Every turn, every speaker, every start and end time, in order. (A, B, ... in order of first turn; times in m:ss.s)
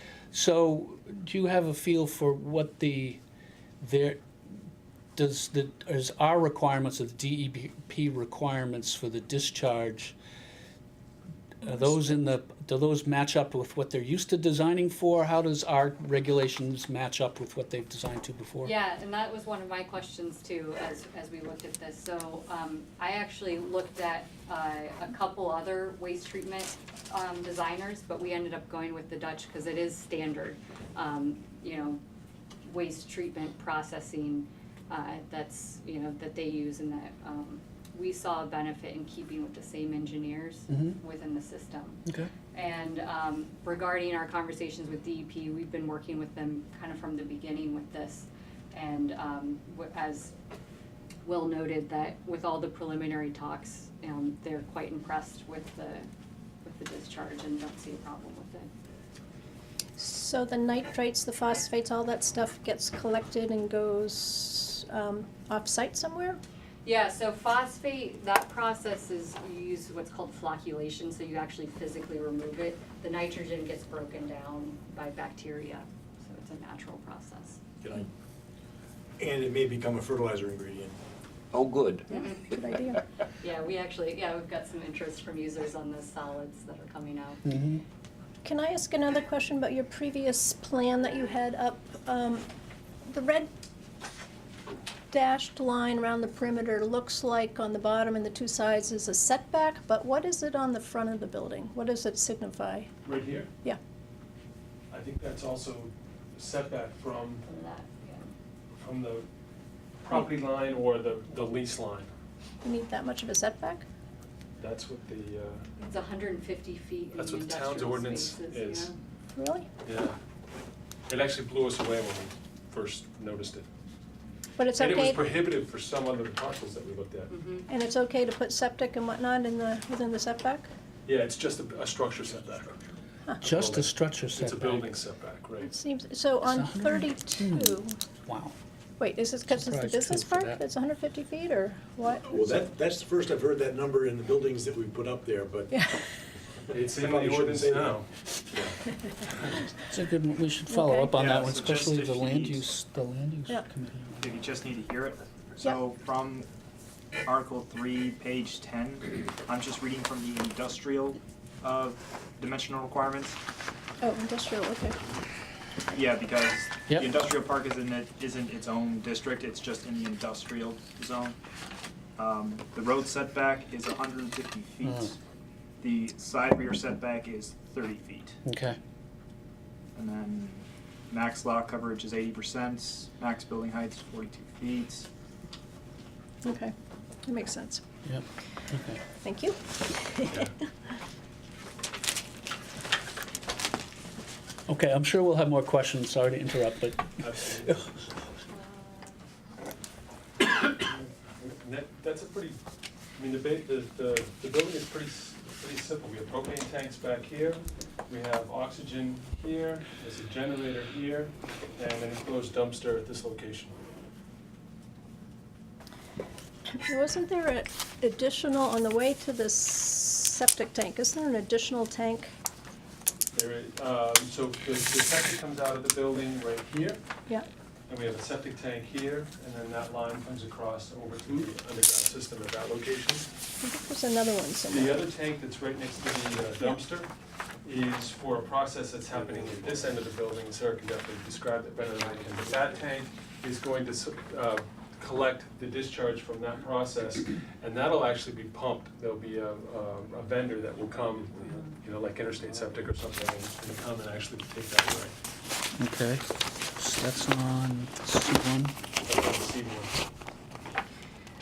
0:00.3-0:03.2 A
0:03.8-0:04.2 A
0:05.2-0:10.2 A
0:11.6-0:18.7 A
0:18.6-0:32.0 B
0:32.6-0:50.3 B
0:40.7-0:41.0 A
0:51.2-0:56.1 B
0:56.6-0:58.7 B
1:00.0-1:06.4 C
1:06.8-1:17.6 B
1:17.8-1:18.1 D
1:19.2-1:21.0 D
1:21.5-1:22.1 E
1:22.1-1:23.0 C
1:22.2-1:22.4 B
1:23.4-1:27.4 B
1:27.4-1:27.8 A
1:28.4-1:32.5 C
1:33.1-1:33.5 C
1:35.1-1:42.9 C
1:43.0-1:43.5 F
1:44.9-1:47.4 F
1:47.5-1:48.3 B
1:48.7-1:49.3 F
1:50.0-1:52.1 F
1:52.6-1:53.8 C
1:54.6-1:55.6 F
1:55.8-1:59.0 B
1:57.1-1:58.9 F
1:59.4-1:59.7 C
1:59.8-2:00.2 F
2:01.1-2:03.7 F
2:04.6-2:05.3 C
2:04.8-2:07.4 F
2:07.3-2:07.7 B
2:07.7-2:10.7 C
2:11.1-2:12.8 F
2:13.4-2:15.7 F
2:13.4-2:14.9 A
2:15.6-2:18.0 C
2:16.4-2:18.5 A
2:19.0-2:22.3 C
2:19.5-2:20.6 A
2:22.2-2:25.7 D
2:25.7-2:26.1 C
2:26.7-2:28.1 F
2:26.8-2:28.0 D
2:29.8-2:34.4 A
2:30.7-2:31.1 C
2:31.1-2:32.7 E
2:34.2-2:36.5 E
2:37.3-2:43.4 E
2:44.0-2:45.0 C
2:45.9-2:51.4 E
2:52.2-2:55.2 E
2:54.8-2:55.2 A
2:55.8-2:58.4 E
2:58.4-2:58.8 A
3:00.0-3:05.1 E
3:06.4-3:06.7 C
3:07.2-3:07.8 C
3:08.0-3:09.0 A
3:09.2-3:10.5 C
3:10.3-3:10.5 F
3:14.7-3:17.9 A
3:17.2-3:17.8 F
3:18.5-3:19.2 B
3:20.7-3:22.6 F
3:23.2-3:33.8 F
3:36.7-3:42.3 C
3:43.3-3:47.0 F
3:47.9-3:53.3 F
3:53.6-3:55.0 C
3:54.6-3:57.1 F
3:57.6-4:15.2 F
4:15.8-4:18.8 A
4:19.1-4:20.0 F